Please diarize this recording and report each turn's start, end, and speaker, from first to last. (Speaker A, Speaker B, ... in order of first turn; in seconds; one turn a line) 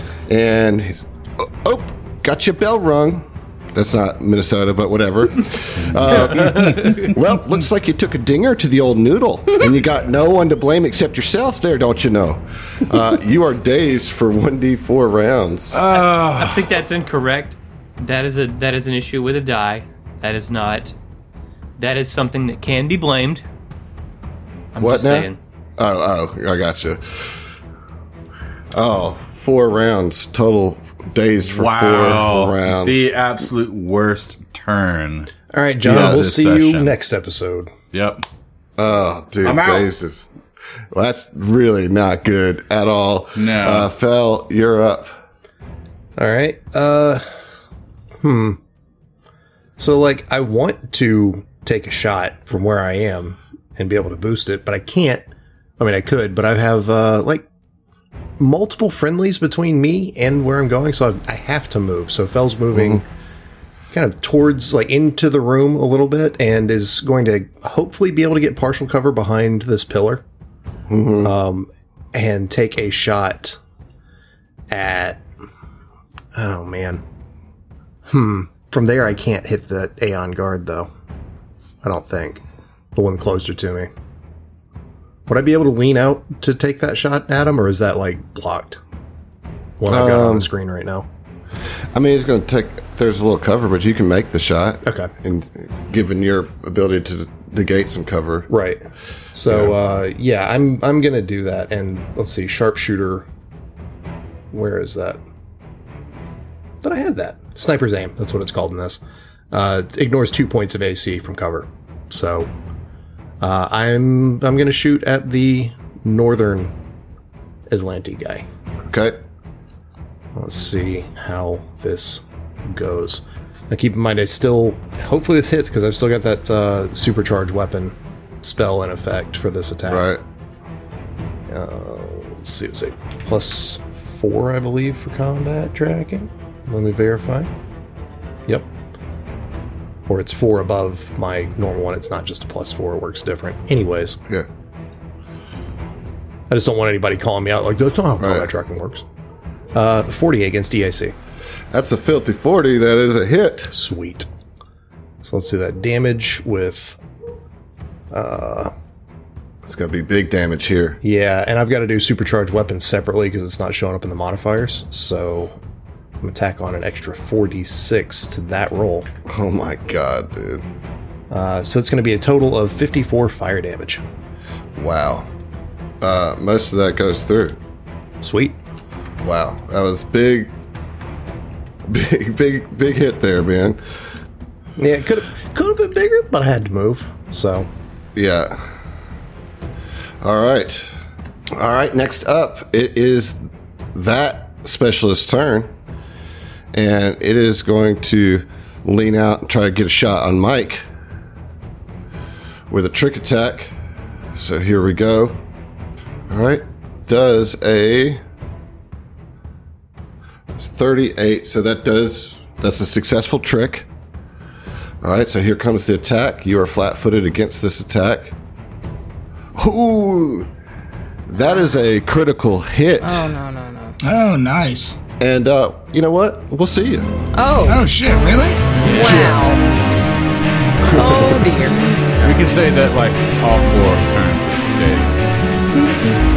Speaker A: 0.3-15.8
Speaker B: 5.8-7.1
Speaker C: 6.1-7.1
Speaker B: 15.7-16.7
Speaker C: 15.9-20.9
Speaker C: 21.8-23.4
Speaker C: 24.7-25.4
Speaker A: 24.8-27.5
Speaker A: 28.7-33.1
Speaker B: 31.5-37.0
Speaker D: 35.5-37.7
Speaker A: 35.9-36.2
Speaker B: 37.9-38.2
Speaker A: 38.8-40.3
Speaker B: 39.4-39.9
Speaker A: 40.9-45.2
Speaker B: 43.4-43.9
Speaker D: 46.2-47.3
Speaker D: 48.2-48.6
Speaker D: 49.8-57.5
Speaker D: 58.4-63.1
Speaker A: 62.7-63.0
Speaker D: 63.9-70.2
Speaker A: 70.9-71.3
Speaker D: 71.2-73.6
Speaker D: 74.7-75.2
Speaker D: 76.3-77.0
Speaker D: 78.1-80.9
Speaker D: 81.8-83.9
Speaker D: 85.3-88.8
Speaker D: 89.8-91.1
Speaker A: 89.9-90.5
Speaker A: 91.9-98.5
Speaker D: 98.5-103.3
Speaker A: 99.5-99.8
Speaker D: 104.5-105.2
Speaker D: 106.8-112.5
Speaker D: 113.4-116.8
Speaker D: 117.7-118.5
Speaker A: 118.8-119.2
Speaker D: 120.3-130.1
Speaker A: 129.9-130.2
Speaker D: 131.5-137.5
Speaker D: 140.1-144.2
Speaker D: 146.5-149.0
Speaker A: 148.2-148.5
Speaker D: 149.7-151.2
Speaker A: 151.7-153.7
Speaker D: 153.7-154.3
Speaker D: 155.2-157.0
Speaker D: 158.1-158.7
Speaker A: 159.6-161.0
Speaker D: 161.0-165.6
Speaker D: 166.2-169.1
Speaker A: 169.3-170.6
Speaker D: 171.3-174.0
Speaker A: 174.7-175.3
Speaker A: 176.0-177.6
Speaker D: 178.2-178.6
Speaker A: 179.2-180.5
Speaker A: 181.9-183.8
Speaker D: 184.8-187.7
Speaker A: 188.2-188.7
Speaker A: 190.2-190.9
Speaker A: 191.5-195.7
Speaker A: 196.7-200.8
Speaker A: 202.7-203.7
Speaker A: 204.3-205.4
Speaker A: 206.3-208.2
Speaker A: 210.6-213.9
Speaker A: 215.0-218.3
Speaker A: 219.6-220.5
Speaker A: 221.3-223.3
Speaker E: 223.0-224.0
Speaker F: 224.0-225.0
Speaker A: 225.2-227.1
Speaker E: 227.3-227.8
Speaker F: 227.7-229.2
Speaker E: 228.8-229.6
Speaker A: 230.8-231.4
Speaker E: 230.9-231.9
Speaker B: 232.2-235.3